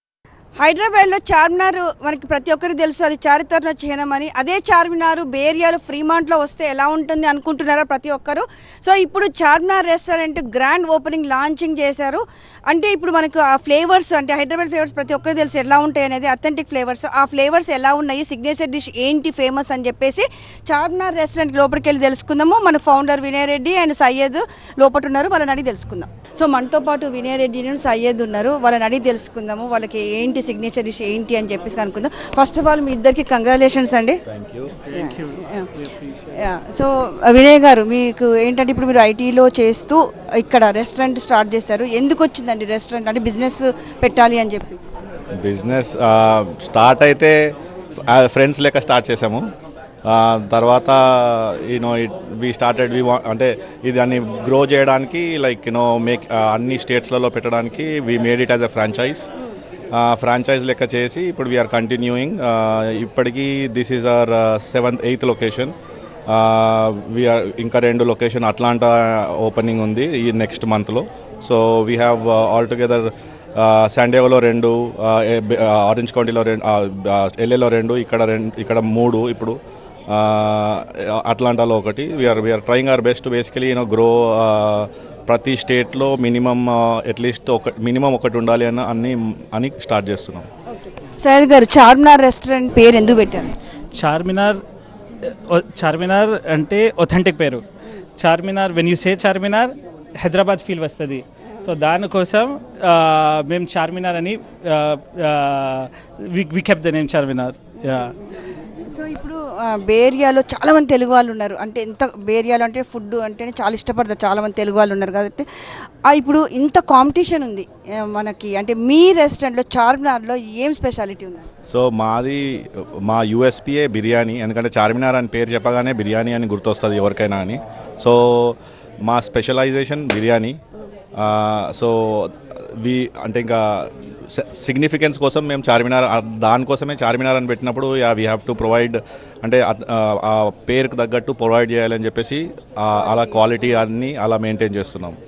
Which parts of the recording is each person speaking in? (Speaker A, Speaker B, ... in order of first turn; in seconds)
Speaker A: 0.6-34.2, 34.9-35.7, 36.4-44.8, 90.8-93.5, 108.9-115.5, 116.1-121.5
Speaker B: 34.3-34.8, 45.4-47.4, 48.0-49.5, 50.0-59.3, 59.9-65.7, 66.3-79.6, 80.1-90.5, 121.7-122.4, 123.0-130.6, 131.2-145.2
Speaker C: 93.9-94.6, 95.2-97.6, 98.2-108.2